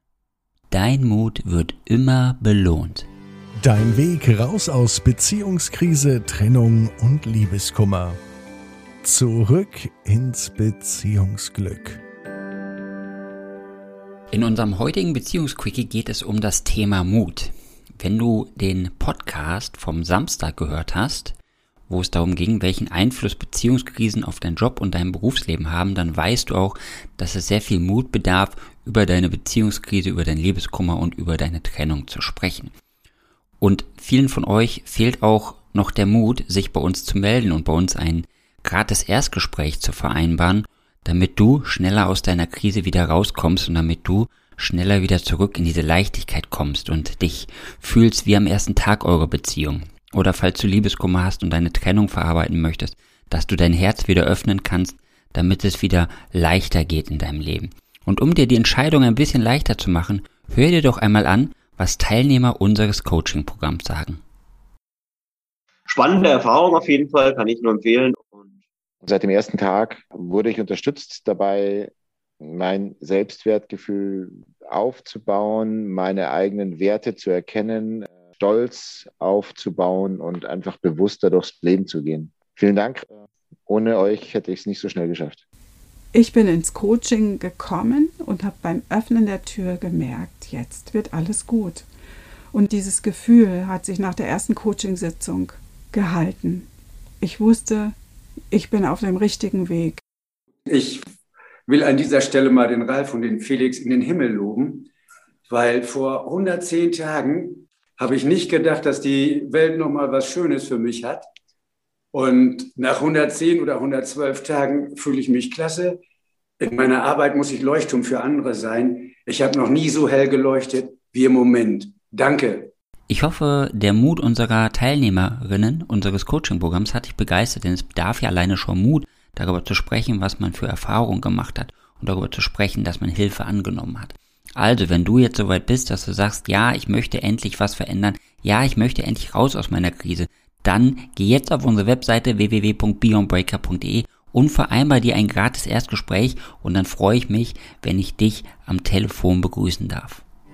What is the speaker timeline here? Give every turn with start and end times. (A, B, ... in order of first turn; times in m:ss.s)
0:00.7-0:03.1 A
0:03.6-0:08.2 B
0:09.0-0:12.0 B
0:14.3-0:21.4 A
0:21.9-0:32.7 A
0:33.6-1:04.2 A
1:05.9-1:08.6 C
1:09.0-1:11.9 D
1:12.4-1:23.1 D
1:23.7-1:25.4 D
1:26.1-1:31.9 E
1:32.5-1:36.7 E
1:37.2-1:38.0 E
1:38.5-1:40.0 E
1:40.7-1:41.0 F
1:41.7-1:44.9 F
1:45.5-1:51.2 F
1:52.1-1:56.0 F
1:56.6-2:02.7 F
2:03.1-2:30.2 A